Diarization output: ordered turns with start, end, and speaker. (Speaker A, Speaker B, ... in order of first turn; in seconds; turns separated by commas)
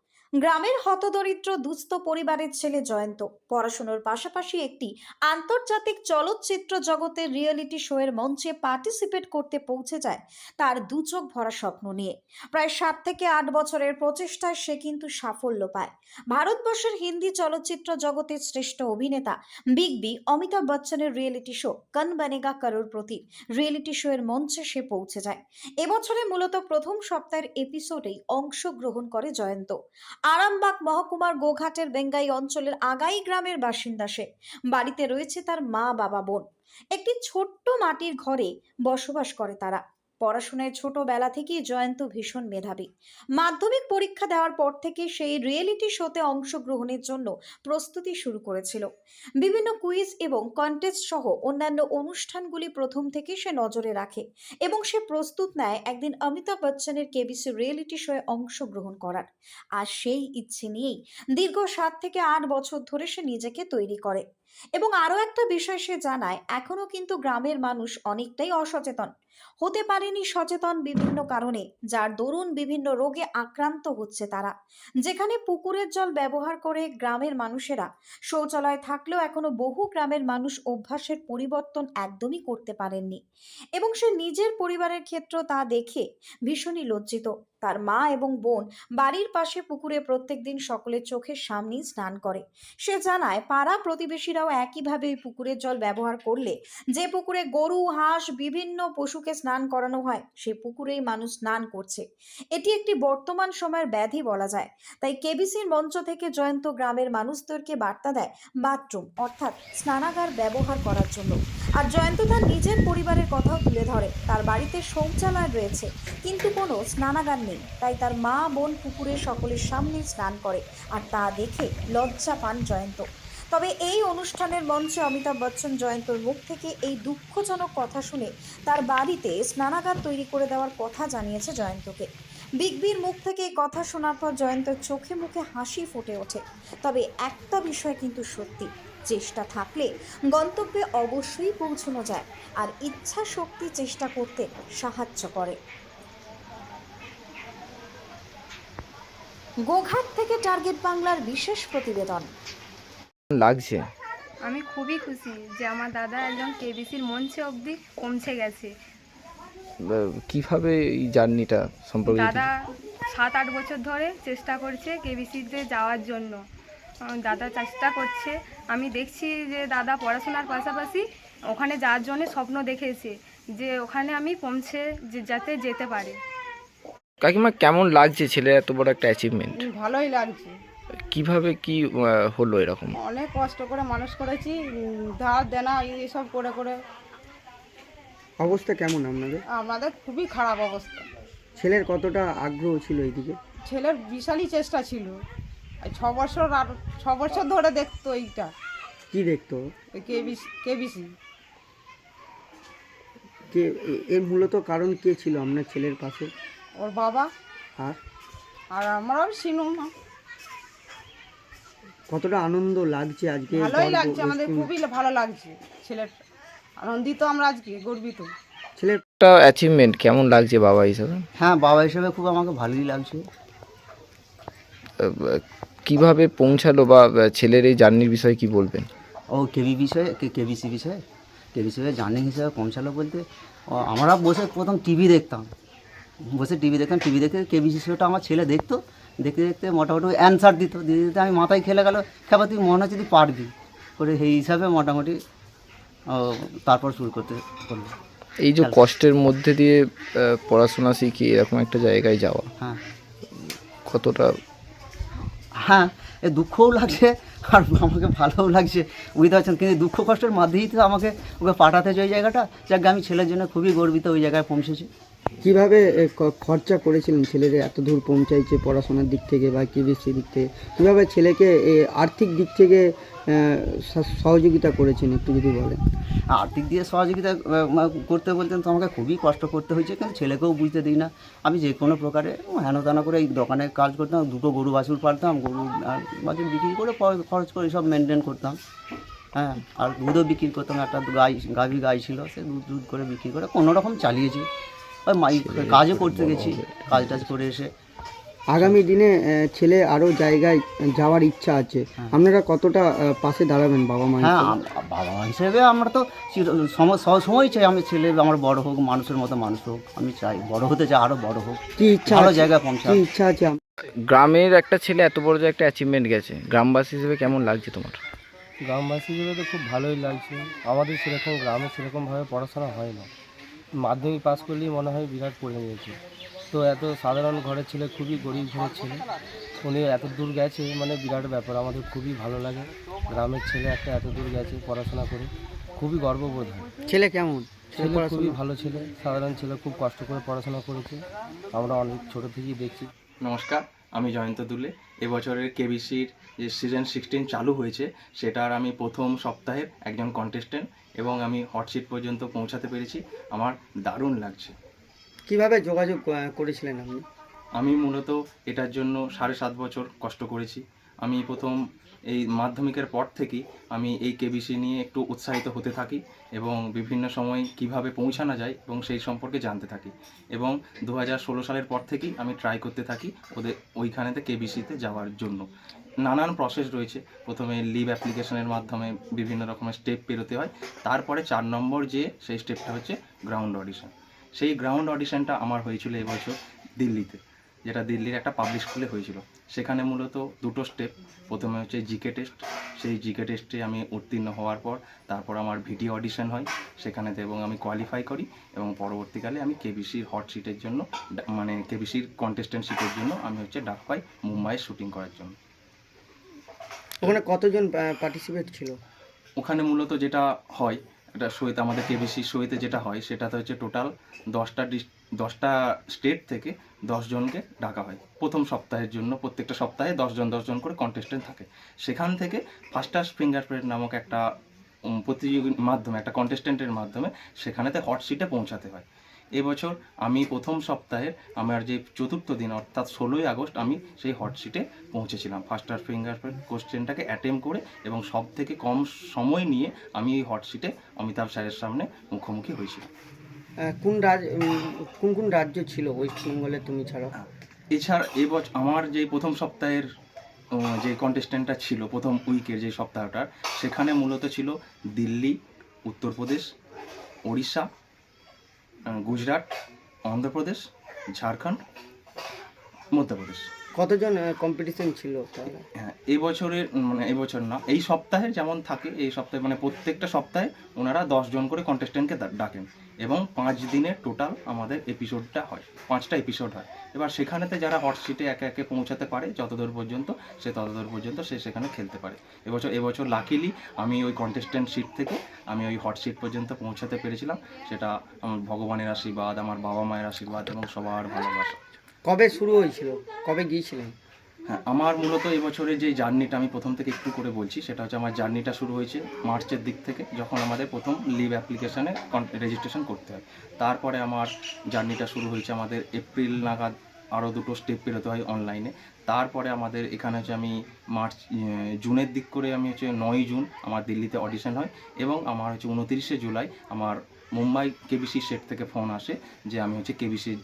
Speaker A: 0.4-29.7, Speaker A: 30.3-42.9, Speaker A: 43.4-48.9, Speaker A: 49.4-64.2, Speaker A: 64.8-69.1, Speaker A: 69.6-83.2, Speaker A: 83.8-132.1, Speaker A: 132.6-145.6, Speaker A: 149.7-152.3, Speaker B: 153.3-153.8, Speaker C: 154.4-158.7, Speaker B: 159.8-162.4, Speaker C: 162.1-162.6, Speaker C: 163.1-166.4, Speaker C: 167.2-176.2, Speaker B: 177.2-179.6, Speaker D: 179.6-180.6, Speaker B: 181.1-183.0, Speaker D: 182.9-186.8, Speaker E: 188.4-189.4, Speaker D: 189.5-191.1, Speaker E: 191.6-193.4, Speaker D: 193.6-195.2, Speaker D: 195.8-198.5, Speaker E: 199.1-199.6, Speaker D: 199.9-201.1, Speaker E: 203.5-206.3, Speaker D: 206.8-207.3, Speaker D: 208.7-209.9, Speaker E: 212.1-214.7, Speaker D: 213.5-216.2, Speaker D: 216.8-218.3, Speaker E: 218.8-219.0, Speaker B: 219.2-221.2, Speaker F: 221.4-223.2, Speaker B: 225.0-228.9, Speaker F: 229.3-231.0, Speaker F: 231.5-235.5, Speaker F: 236.3-245.2, Speaker F: 246.1-247.9, Speaker B: 248.4-252.5, Speaker F: 248.6-248.8, Speaker B: 253.3-254.4, Speaker F: 255.6-264.9, Speaker E: 265.4-275.8, Speaker F: 276.3-288.6, Speaker F: 289.3-294.5, Speaker F: 295.1-297.7, Speaker B: 295.3-297.3, Speaker E: 298.5-304.5, Speaker F: 304.2-313.0, Speaker E: 311.8-313.6, Speaker B: 313.9-318.0, Speaker G: 318.6-323.1, Speaker G: 323.8-326.0, Speaker G: 326.5-329.0, Speaker G: 329.6-336.7, Speaker E: 336.9-338.4, Speaker G: 337.8-342.9, Speaker H: 343.2-354.5, Speaker E: 355.3-357.0, Speaker H: 357.6-361.5, Speaker H: 362.1-375.5, Speaker H: 376.0-405.3, Speaker E: 407.0-408.8, Speaker H: 409.4-424.2, Speaker H: 424.9-428.8, Speaker H: 429.4-442.9, Speaker E: 443.6-447.1, Speaker H: 447.2-449.8, Speaker H: 450.5-455.3, Speaker H: 455.9-456.5, Speaker H: 457.3-457.7, Speaker H: 458.9-459.5, Speaker H: 460.1-460.6, Speaker H: 461.1-461.6, Speaker H: 462.9-463.5, Speaker E: 463.7-465.6, Speaker H: 465.8-491.6, Speaker E: 492.0-493.9, Speaker H: 494.5-520.3